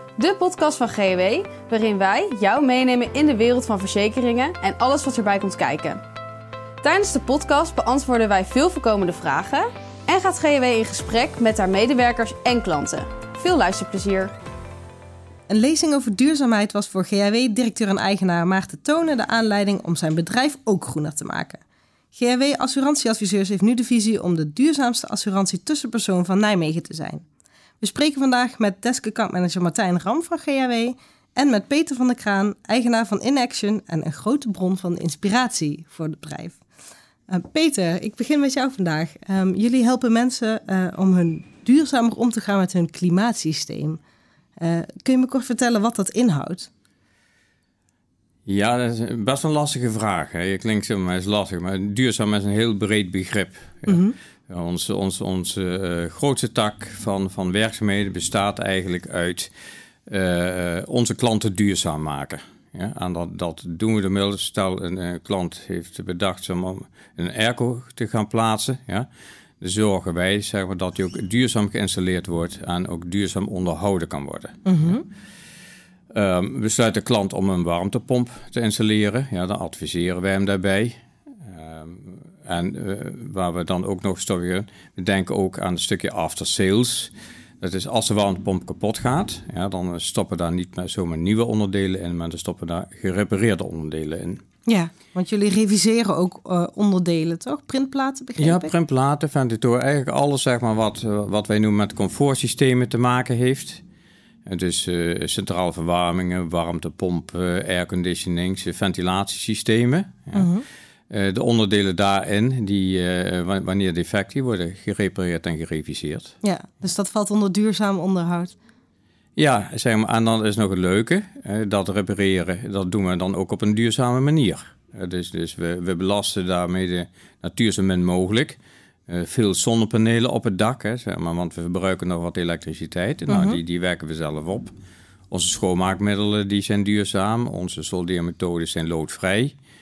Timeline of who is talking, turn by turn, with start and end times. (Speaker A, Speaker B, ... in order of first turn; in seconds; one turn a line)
Speaker A: 0.2-6.0
Speaker A: 6.8-14.3
Speaker B: 15.5-21.6
Speaker B: 22.1-27.2
Speaker B: 27.8-36.6
Speaker B: 37.3-44.0
Speaker B: 44.6-46.7
Speaker C: 48.5-59.5
Speaker B: 53.9-54.1
Speaker C: 60.1-69.1
Speaker C: 69.6-75.0
Speaker B: 74.7-75.0
Speaker C: 76.1-94.4
Speaker B: 94.7-98.7
Speaker C: 98.4-103.8
Speaker C: 104.5-110.5
Speaker B: 110.3-110.6
Speaker C: 111.1-116.3
Speaker B: 116.4-118.6
Speaker C: 119.4-134.7
Speaker B: 133.3-133.6
Speaker C: 135.3-139.6